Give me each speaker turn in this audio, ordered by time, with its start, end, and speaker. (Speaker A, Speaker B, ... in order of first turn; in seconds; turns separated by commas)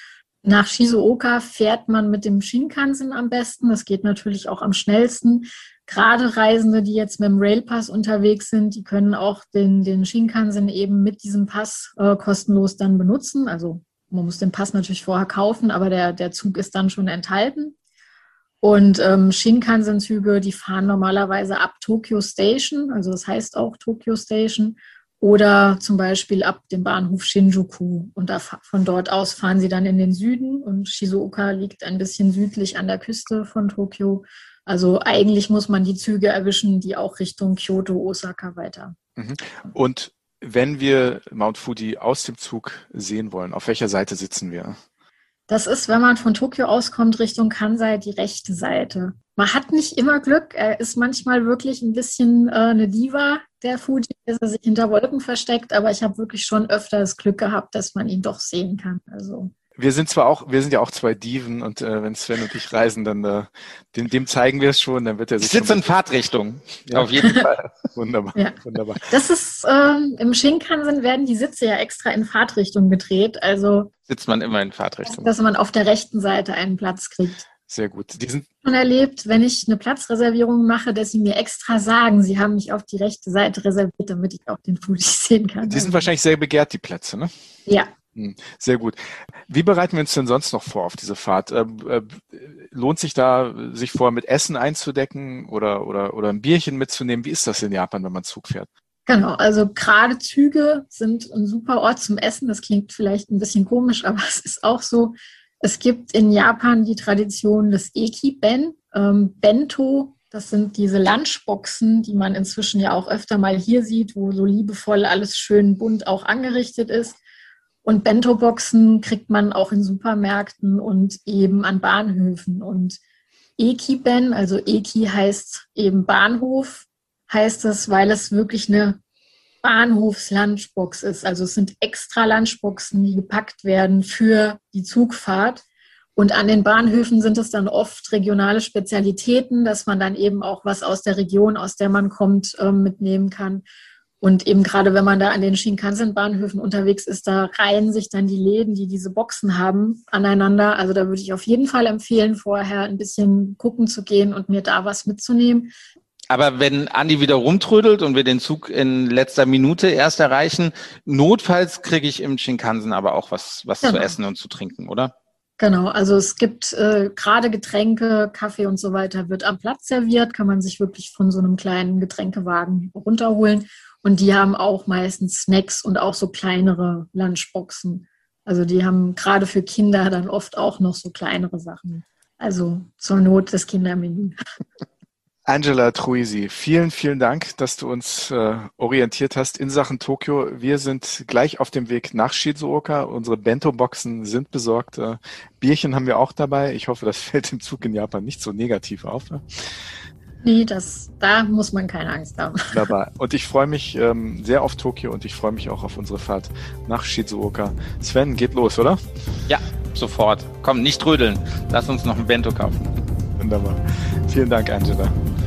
Speaker A: 0.4-17.8, Speaker A: 18.6-39.0, Speaker B: 39.2-44.8, Speaker A: 45.5-59.5, Speaker B: 59.8-65.8, Speaker C: 65.4-67.8, Speaker B: 66.9-69.1, Speaker A: 69.1-73.9, Speaker C: 74.1-75.3, Speaker A: 75.1-77.5, Speaker B: 77.7-78.5, Speaker A: 78.7-86.1, Speaker B: 85.7-87.3, Speaker B: 88.2-98.7, Speaker A: 99.1-117.2, Speaker A: 117.8-123.0, Speaker A: 123.6-129.0, Speaker A: 129.6-135.6, Speaker A: 136.2-143.6, Speaker A: 144.2-155.7, Speaker C: 156.3-165.1, Speaker A: 163.8-164.2, Speaker A: 165.6-184.3, Speaker B: 185.5-199.7, Speaker A: 200.4-202.9, Speaker B: 202.7-209.0, Speaker C: 209.5-212.9, Speaker B: 213.4-215.1